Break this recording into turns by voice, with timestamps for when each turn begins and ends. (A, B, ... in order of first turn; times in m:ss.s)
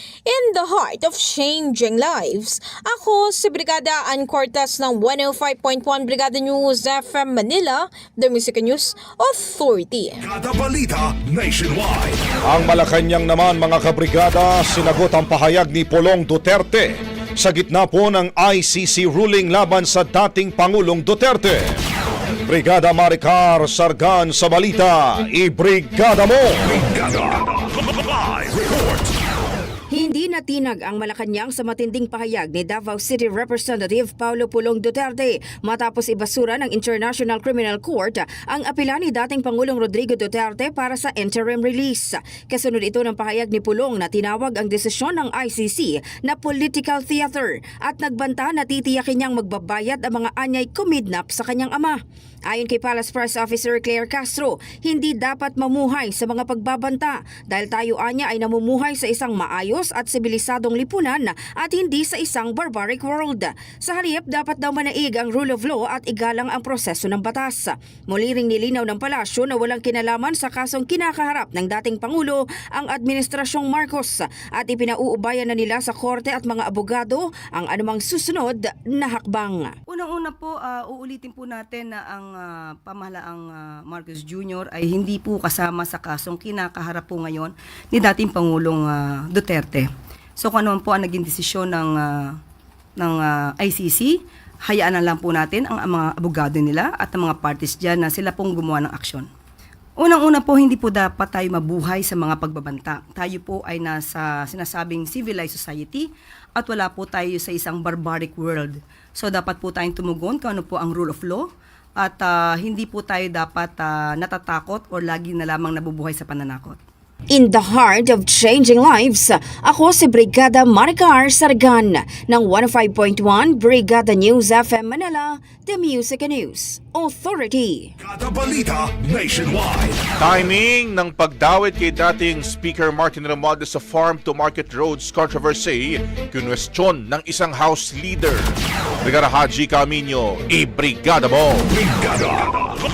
0:00.3-0:10.2 A
0:10.2-0:12.2 B
0:12.5-0:21.8 C
0:22.5-0:26.8 C
0:26.7-0:29.1 B
0:29.9-0:52.0 D
0:52.5-1:19.7 D
1:19.9-1:32.4 E
1:33.0-1:39.3 E
1:40.0-1:56.8 E
1:57.4-2:07.8 D
2:08.0-2:10.0 B
2:10.2-2:18.5 F
2:19.0-2:21.7 F
2:21.7-2:22.6 B